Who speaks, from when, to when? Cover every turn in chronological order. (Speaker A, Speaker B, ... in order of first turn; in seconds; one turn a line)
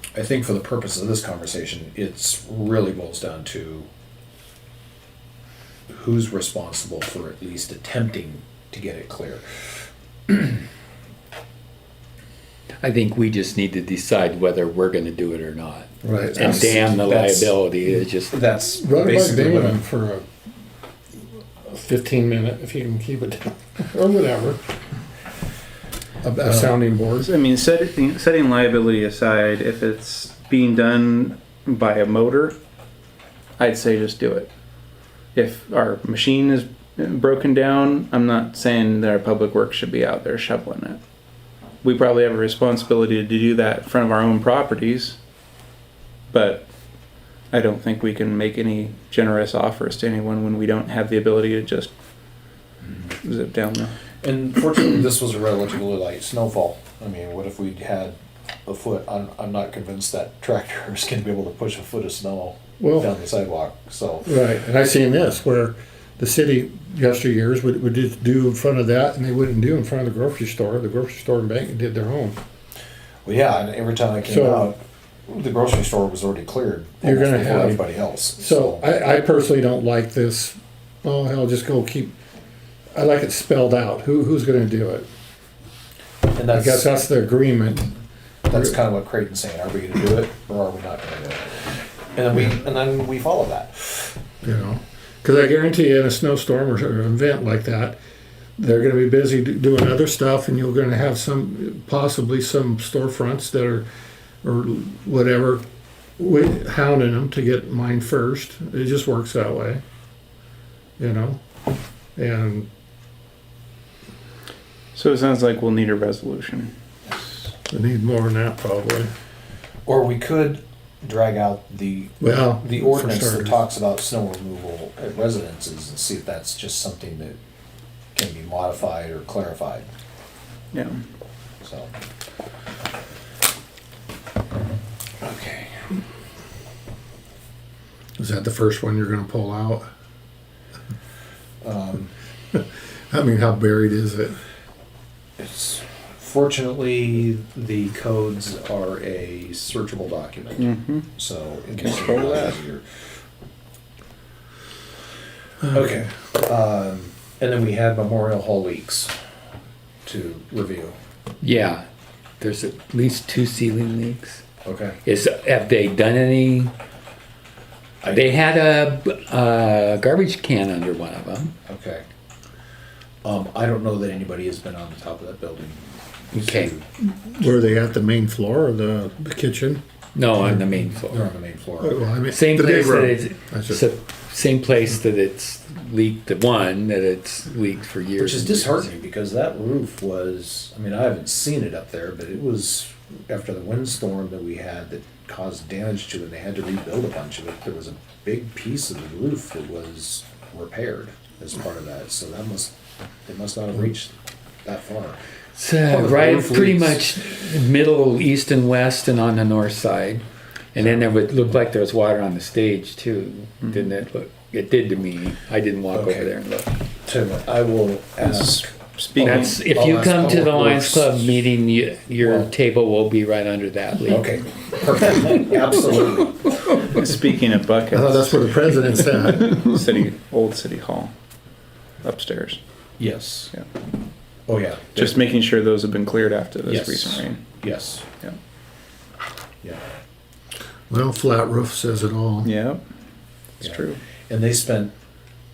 Speaker A: 0.1-3.9
Speaker A: 5.9-9.4
Speaker A: 10.3-10.6
Speaker B: 12.8-18.4
Speaker C: 16.0-16.9
Speaker A: 16.3-17.6
Speaker A: 18.3-19.8
Speaker C: 18.8-20.2
Speaker C: 21.7-24.6
Speaker C: 26.2-27.3
Speaker A: 26.5-26.8
Speaker D: 27.2-32.6
Speaker D: 33.6-34.5
Speaker D: 35.4-41.0
Speaker D: 41.8-45.2
Speaker D: 46.3-46.7
Speaker D: 47.5-51.9
Speaker D: 53.2-54.0
Speaker A: 54.2-64.3
Speaker C: 62.8-63.1
Speaker C: 64.2-72.4
Speaker A: 73.2-78.9
Speaker C: 74.2-74.7
Speaker C: 77.0-77.8
Speaker C: 78.4-82.2
Speaker C: 82.9-85.1
Speaker A: 86.3-86.9
Speaker C: 86.5-88.0
Speaker A: 88.5-94.1
Speaker C: 94.4-98.0
Speaker C: 98.6-103.9
Speaker C: 104.4-105.6
Speaker C: 106.2-109.8
Speaker C: 111.0-111.4
Speaker C: 112.2-112.7
Speaker D: 115.0-116.7
Speaker C: 117.7-119.1
Speaker A: 119.9-127.4
Speaker C: 122.2-123.6
Speaker A: 128.1-129.9
Speaker D: 130.7-131.0
Speaker A: 131.6-131.9
Speaker A: 135.2-135.9
Speaker C: 138.2-139.9
Speaker A: 141.6-142.1
Speaker C: 142.5-144.4
Speaker A: 145.4-152.8
Speaker D: 150.6-151.1
Speaker D: 151.8-152.6
Speaker A: 155.6-159.1
Speaker A: 160.1-161.0
Speaker B: 161.4-161.8
Speaker B: 162.4-164.4
Speaker A: 164.7-165.0
Speaker B: 165.1-166.7
Speaker A: 168.0-168.4
Speaker B: 168.1-171.5
Speaker A: 171.7-172.1
Speaker A: 173.2-176.8
Speaker B: 176.3-176.7
Speaker C: 177.2-179.8
Speaker B: 180.2-181.2
Speaker A: 181.1-182.0
Speaker C: 181.8-183.9
Speaker B: 182.3-188.9
Speaker A: 188.2-202.7
Speaker A: 203.3-204.1
Speaker A: 204.7-205.2
Speaker B: 205.6-216.7
Speaker A: 205.8-207.1
Speaker D: 213.6-213.9
Speaker A: 215.9-216.3
Speaker A: 217.1-221.5
Speaker D: 218.2-219.6
Speaker B: 219.2-224.3
Speaker A: 222.2-222.5
Speaker A: 224.1-226.4
Speaker D: 226.7-231.1
Speaker C: 227.9-229.8
Speaker D: 232.0-232.6
Speaker A: 233.0-233.5
Speaker A: 234.5-235.2
Speaker D: 235.0-237.4
Speaker A: 236.7-238.1
Speaker C: 240.9-242.5
Speaker D: 242.4-242.8
Speaker D: 243.6-244.0
Speaker A: 243.6-244.9